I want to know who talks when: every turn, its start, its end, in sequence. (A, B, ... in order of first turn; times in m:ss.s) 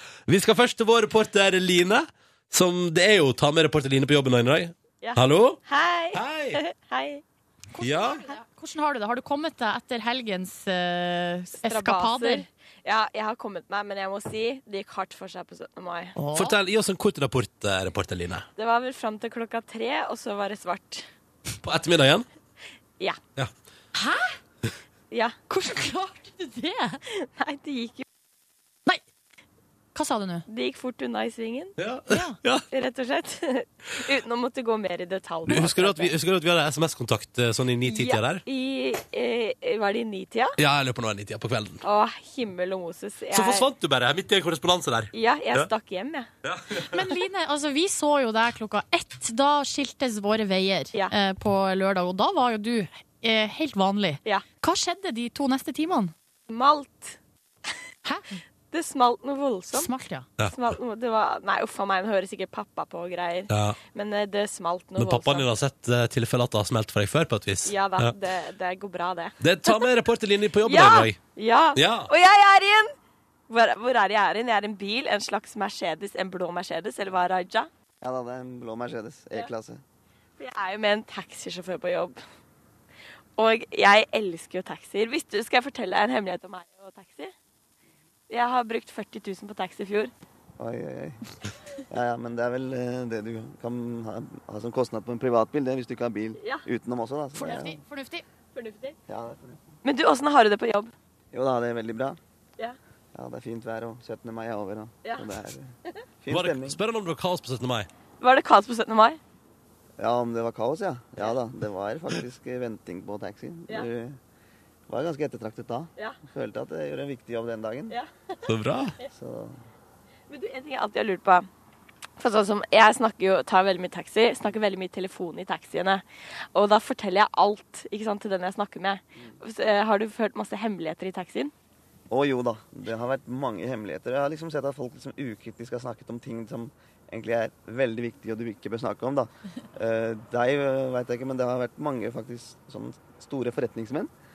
0:00.3-0:05.6 A
0:05.0-0:07.2 B
0:06.1-0:06.6 A
0:07.7-0:12.4 C
0:07.8-0:08.2 A
0:11.6-0:16.2 B
0:16.2-0:16.6 C
0:16.3-0:18.5 A
0:18.6-0:21.1 B
0:21.6-0:22.3 A
0:24.0-0:24.4 C
0:25.5-0:27.0 C
0:27.2-0:28.0 B
0:30.0-0:30.5 C
0:30.5-0:31.8 B
0:31.8-0:32.6 A
0:32.1-0:32.4 C
0:32.7-0:36.1 B
0:35.5-0:38.4 A
0:37.8-0:40.6 B
0:40.6-0:41.8 A
0:41.8-0:43.7 B
0:43.3-0:45.7 A
0:45.1-0:46.3 B
0:46.4-0:47.1 A
0:46.8-0:56.1 C
0:56.5-0:57.2 B
0:58.7-0:59.9 B
0:59.7-1:00.3 C
1:00.4-1:05.5 B
1:03.5-1:03.8 A
1:05.0-1:08.2 A
1:07.6-1:09.7 B
1:09.4-1:11.2 A
1:10.6-1:12.9 B
1:11.8-1:12.1 A
1:13.5-1:17.7 B
1:18.0-1:19.8 D
1:20.4-1:22.2 B
1:23.4-1:27.3 B
1:28.3-1:30.1 B
1:30.6-1:31.2 D
1:31.9-1:37.8 D
1:36.4-1:36.7 B
1:37.4-1:38.2 C
1:38.5-1:39.0 B
1:39.1-1:39.8 D
1:39.8-1:40.9 B
1:41.3-1:42.2 D
1:43.2-1:46.8 D
1:45.0-1:45.3 B
1:46.3-1:47.9 A
1:48.2-1:49.2 B
1:50.0-1:54.2 D
1:54.9-1:58.0 D
1:57.9-1:58.5 B
1:58.5-1:59.0 A
1:59.0-1:59.6 D
2:00.3-2:01.5 B
2:02.2-2:11.5 B
2:12.1-2:24.1 D